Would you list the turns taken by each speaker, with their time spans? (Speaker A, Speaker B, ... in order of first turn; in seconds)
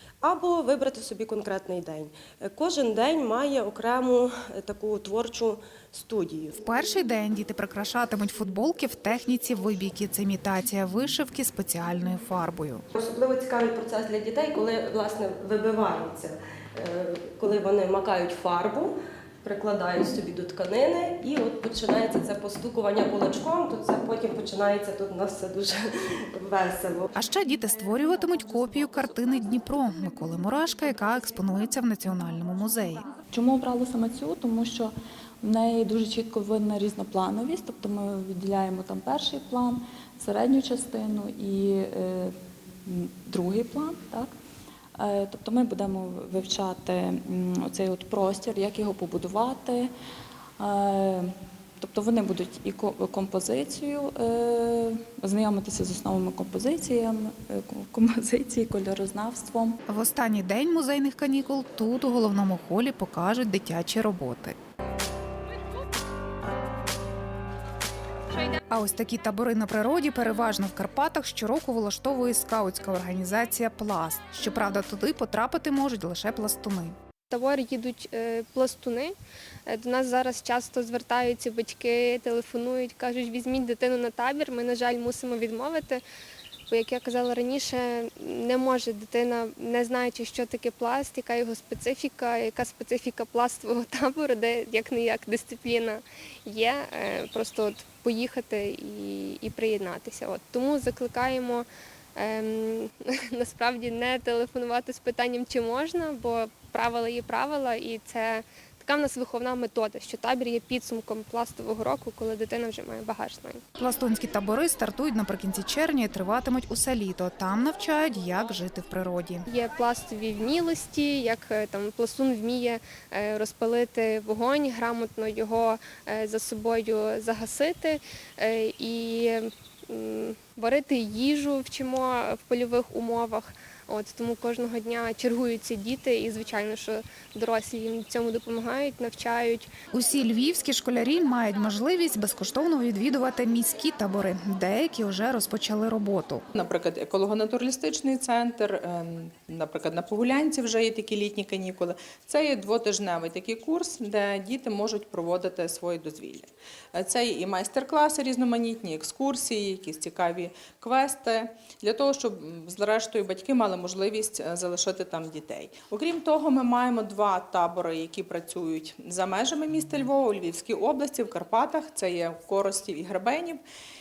Speaker A: 0.2-6.5, 12.9-27.1
Speaker B: 6.6-12.8, 27.1-33.0, 59.9-64.5, 68.7-77.0, 113.8-119.5, 139.9-146.4
Speaker C: 33.3-44.3, 45.0-49.9, 50.6-59.8
Speaker D: 77.3-79.1, 79.7-86.0, 86.7-113.6, 119.5-139.7
Speaker E: 146.5-173.6